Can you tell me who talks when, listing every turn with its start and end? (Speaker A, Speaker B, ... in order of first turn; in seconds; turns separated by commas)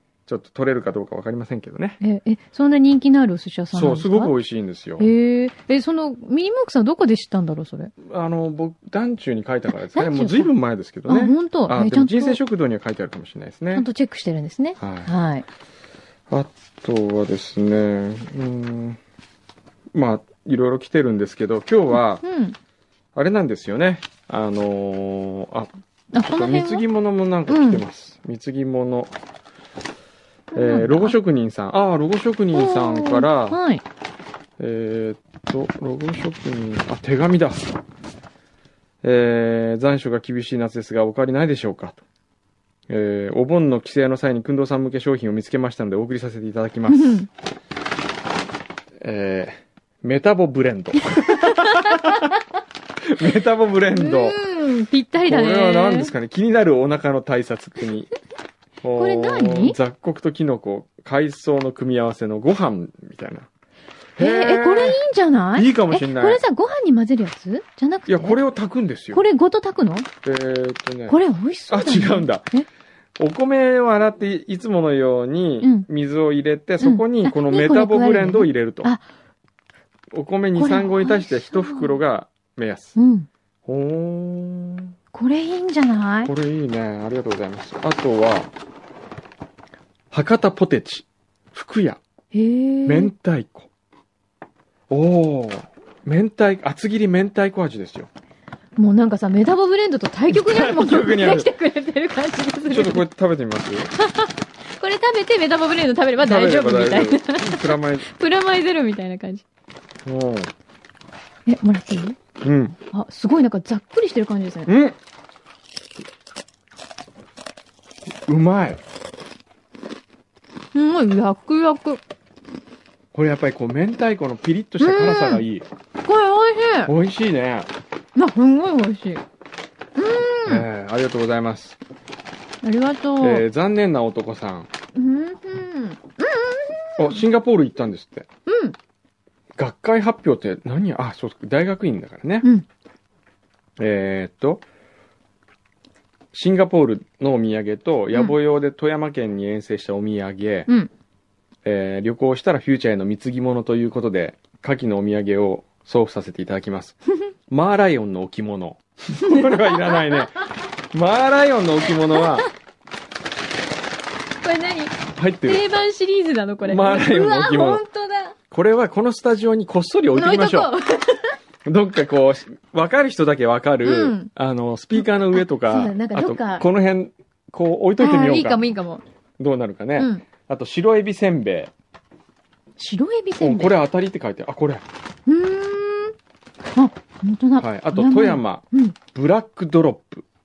Speaker A: 0.3-2.0, Speaker B: 2.0-4.3, Speaker A: 3.7-5.1, Speaker B: 5.0-7.9, Speaker A: 8.0-13.9, Speaker B: 9.9-10.5, Speaker B: 11.1-12.4, Speaker B: 13.8-15.4, Speaker A: 14.8-15.1, Speaker A: 16.3-19.0, Speaker A: 19.9-22.2, Speaker B: 22.2-22.6, Speaker A: 23.1-29.1, Speaker B: 26.1-26.8, Speaker B: 27.5-27.8, Speaker B: 30.5-31.1, Speaker A: 30.5-33.6, Speaker B: 32.5-33.8, Speaker A: 34.6-37.6, Speaker A: 39.0-42.0, Speaker A: 42.9-47.3, Speaker B: 46.9-47.3, Speaker A: 49.0-52.3, Speaker B: 51.3-52.1, Speaker A: 53.0-54.4, Speaker B: 54.0-56.1, Speaker A: 55.2-58.1, Speaker A: 58.8-63.5, Speaker B: 59.0-59.8, Speaker A: 64.2-65.0, Speaker B: 64.2-68.4, Speaker A: 65.5-66.4, Speaker A: 68.1-69.2, Speaker B: 69.1-70.1, Speaker A: 70.2-71.2, Speaker B: 71.1-72.7, Speaker A: 71.7-72.5, Speaker A: 73.2-78.9, Speaker B: 76.8-79.0, Speaker A: 80.1-83.0, Speaker B: 80.6-82.0, Speaker B: 83.0-83.3, Speaker A: 83.7-84.9, Speaker B: 85.1-86.3, Speaker A: 86.2-88.5, Speaker A: 90.1-92.0, Speaker B: 92.3-93.1, Speaker A: 92.8-93.7, Speaker A: 94.9-98.1, Speaker B: 98.8-103.0, Speaker A: 100.3-101.5, Speaker A: 102.7-103.9, Speaker B: 104.0-109.4, Speaker A: 106.2-108.1, Speaker A: 110.1-110.5, Speaker B: 111.5-112.2, Speaker A: 112.4-112.8, Speaker B: 112.9-114.7, Speaker A: 114.7-115.0, Speaker A: 118.3-118.8, Speaker B: 120.7-122.0, Speaker A: 123.1-125.7, Speaker B: 124.8-125.4, Speaker B: 126.0-126.9, Speaker A: 126.8-127.7, Speaker B: 128.2-129.2, Speaker B: 130.0-130.7, Speaker A: 130.5-131.8, Speaker B: 132.6-133.4, Speaker A: 133.2-134.7, Speaker B: 134.9-137.2, Speaker A: 137.0-138.3, Speaker B: 138.5-138.8, Speaker A: 139.6-142.5, Speaker A: 143.8-144.6, Speaker A: 146.3-150.7, Speaker A: 151.7-162.5, Speaker B: 159.2-160.3, Speaker B: 164.4-168.3, Speaker A: 165.2-165.6, Speaker A: 166.7-167.8, Speaker A: 168.5-170.7, Speaker B: 170.2-171.3, Speaker A: 171.7-178.6, Speaker B: 173.8-174.3, Speaker B: 175.0-176.7, Speaker B: 178.0-179.0, Speaker A: 179.4-181.7, Speaker B: 180.0-180.2, Speaker B: 182.8-183.8, Speaker A: 183.4-184.8, Speaker B: 185.3-186.2, Speaker B: 186.8-189.0, Speaker A: 187.6-190.2